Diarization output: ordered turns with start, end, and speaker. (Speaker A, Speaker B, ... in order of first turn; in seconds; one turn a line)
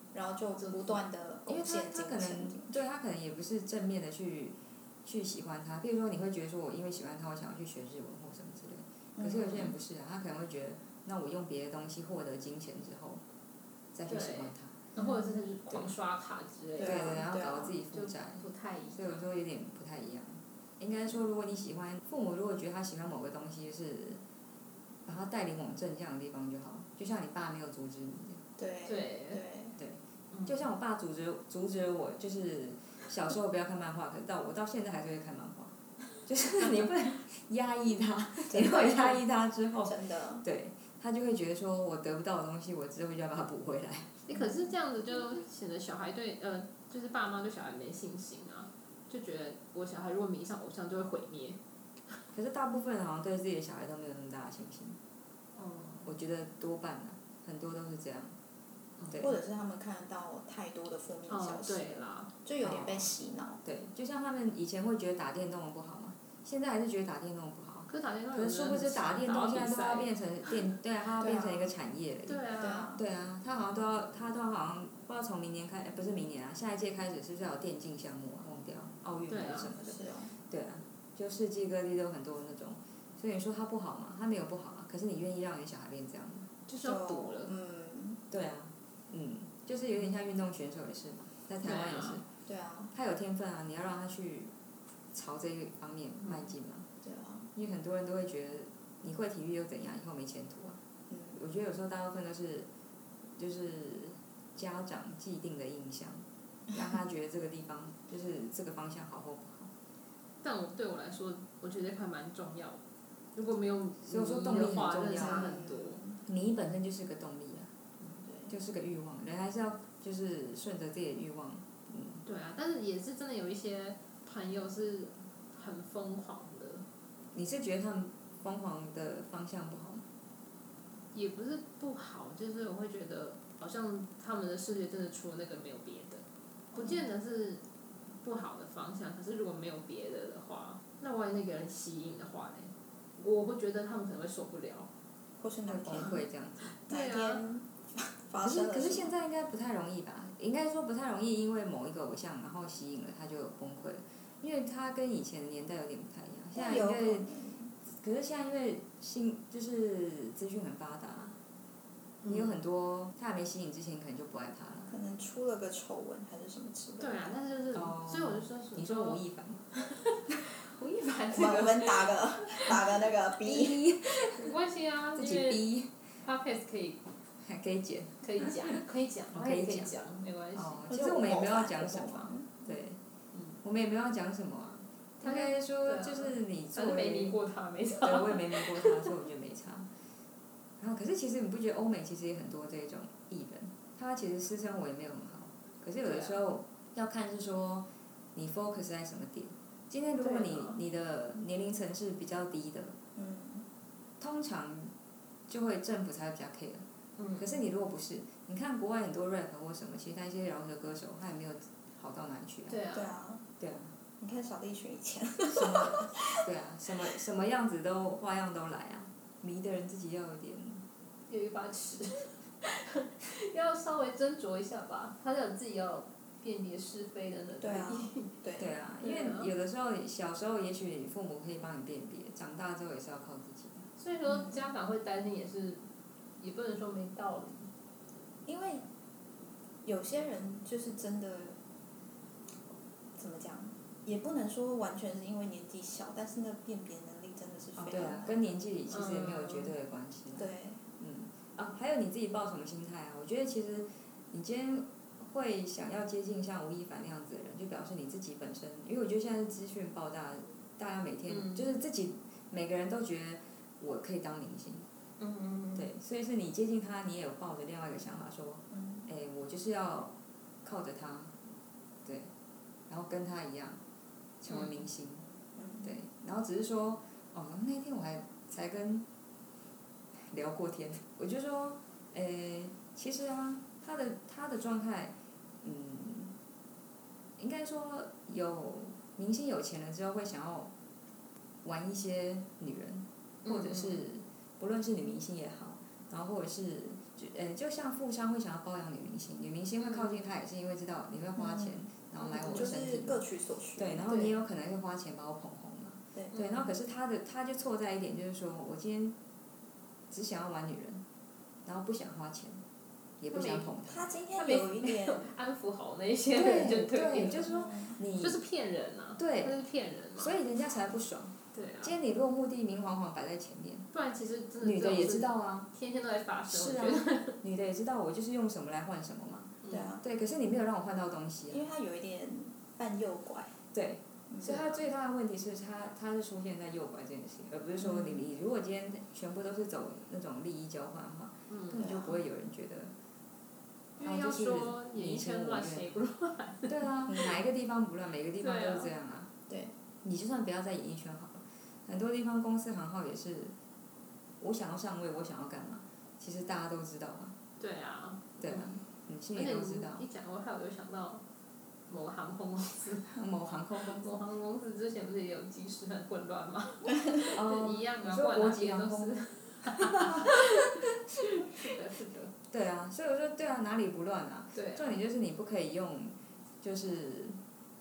Speaker A: 0.1-2.8
Speaker B: 0.6-1.0
Speaker C: 1.5-13.2
Speaker A: 9.2-9.7
Speaker C: 13.9-14.8
Speaker B: 14.1-17.2
Speaker A: 16.8-17.8
Speaker C: 16.8-24.2
Speaker B: 17.9-19.2
Speaker C: 25.1-28.4
Speaker A: 28.6-29.8
Speaker B: 28.9-29.4
Speaker C: 29.8-44.2
Speaker B: 30.3-30.6
Speaker A: 38.5-39.2
Speaker A: 39.8-40.5
Speaker B: 44.3-51.6
Speaker C: 52.3-55.0
Speaker B: 55.5-56.1
Speaker C: 56.1-58.4
Speaker B: 59.0-59.3
Speaker C: 59.1-59.4
Speaker A: 59.2-63.6
Speaker B: 61.3-62.3
Speaker C: 62.6-63.1
Speaker C: 63.6-72.4
Speaker B: 67.9-70.6
Speaker A: 71.2-71.7
Speaker B: 72.3-73.0
Speaker A: 72.6-73.0
Speaker C: 73.0-86.5
Speaker B: 79.3-79.7
Speaker A: 79.8-80.3
Speaker B: 86.7-87.5
Speaker A: 86.8-88.2
Speaker C: 88.3-92.2
Speaker B: 91.6-92.2
Speaker A: 92.5-92.9
Speaker C: 92.9-94.5
Speaker C: 95.1-96.9
Speaker A: 97.0-97.5
Speaker C: 97.5-100.8
Speaker A: 101.1-101.4
Speaker C: 101.3-102.7
Speaker C: 103.4-109.7
Speaker B: 110.4-112.8
Speaker B: 113.3-116.0
Speaker C: 114.1-115.5
Speaker A: 115.2-116.2
Speaker C: 116.3-117.7
Speaker A: 118.2-118.5
Speaker C: 118.5-122.2
Speaker B: 122.2-126.8
Speaker C: 127.3-130.1
Speaker B: 131.1-137.6
Speaker B: 138.2-144.9
Speaker A: 145.4-146.2
Speaker C: 145.7-146.7
Speaker B: 146.8-147.4
Speaker A: 146.9-149.1
Speaker C: 148.4-157.3
Speaker A: 156.6-157.7
Speaker C: 157.8-161.4
Speaker B: 162.2-162.5
Speaker C: 162.3-164.9
Speaker A: 164.9-167.3
Speaker B: 167.0-169.2
Speaker C: 167.8-169.6
Speaker B: 169.7-172.7
Speaker A: 171.3-173.8
Speaker C: 173.4-174.6
Speaker B: 174.2-175.6
Speaker C: 175.2-176.0
Speaker B: 176.2-177.1
Speaker C: 177.4-178.8
Speaker B: 178.2-180.8
Speaker C: 179.3-179.9
Speaker C: 180.5-183.0
Speaker A: 180.9-182.5
Speaker C: 183.6-187.4
Speaker B: 185.2-189.1
Speaker C: 188.0-189.9
Speaker C: 190.8-203.0
Speaker B: 196.0-196.5
Speaker B: 200.2-200.8
Speaker A: 203.2-203.7
Speaker C: 204.2-204.9
Speaker C: 205.5-206.9
Speaker B: 207.2-207.5
Speaker C: 207.4-212.8
Speaker B: 212.7-213.2
Speaker A: 212.9-213.4
Speaker C: 213.6-213.9
Speaker A: 214.2-216.4
Speaker C: 215.5-220.8
Speaker B: 221.3-228.3
Speaker A: 227.6-228.7
Speaker C: 228.6-233.9
Speaker B: 229.0-229.5
Speaker B: 234.0-235.9
Speaker A: 234.3-234.6
Speaker B: 236.4-237.7
Speaker A: 238.5-238.8
Speaker A: 239.8-241.6
Speaker A: 243.2-248.3
Speaker C: 247.8-250.5
Speaker B: 248.9-249.7
Speaker A: 250.3-250.8
Speaker C: 251.0-264.9
Speaker B: 261.3-261.7
Speaker B: 265.2-265.9
Speaker C: 265.8-271.3
Speaker A: 268.7-269.1
Speaker C: 272.1-272.3
Speaker C: 272.9-273.8
Speaker C: 274.4-275.3
Speaker B: 274.5-274.8
Speaker A: 275.6-275.9
Speaker C: 275.8-279.1
Speaker C: 280.3-286.4
Speaker C: 287.4-290.7
Speaker C: 291.6-303.2
Speaker B: 293.4-294.0
Speaker B: 299.8-300.2
Speaker A: 301.4-301.8
Speaker B: 302.2-302.7
Speaker A: 302.4-304.1
Speaker C: 303.8-309.2
Speaker B: 304.1-304.4
Speaker A: 306.1-306.5
Speaker B: 306.3-306.6
Speaker C: 310.1-311.1
Speaker C: 311.6-312.6
Speaker C: 313.2-314.1
Speaker B: 313.3-313.7
Speaker A: 313.9-315.3
Speaker B: 314.4-320.4
Speaker C: 316.3-318.4
Speaker A: 317.4-318.0
Speaker C: 319.2-319.5
Speaker C: 320.2-323.9
Speaker B: 321.5-321.9
Speaker B: 323.9-327.4
Speaker C: 324.6-325.7
Speaker C: 326.5-331.7
Speaker B: 329.6-329.9
Speaker A: 329.7-330.0
Speaker A: 331.5-333.6
Speaker C: 333.7-342.9
Speaker A: 334.3-334.6
Speaker B: 334.4-334.8
Speaker A: 337.8-338.2
Speaker B: 341.5-341.8
Speaker A: 341.8-342.2
Speaker B: 344.0-346.8
Speaker C: 344.0-345.9
Speaker C: 346.7-349.3
Speaker B: 348.4-348.9
Speaker C: 350.0-353.5
Speaker C: 354.4-357.4
Speaker B: 357.6-358.8
Speaker C: 358.4-360.1
Speaker B: 359.3-361.2
Speaker B: 361.9-363.2
Speaker C: 363.1-364.1
Speaker B: 363.8-372.3
Speaker C: 367.2-370.5
Speaker C: 372.5-377.4
Speaker B: 374.6-374.9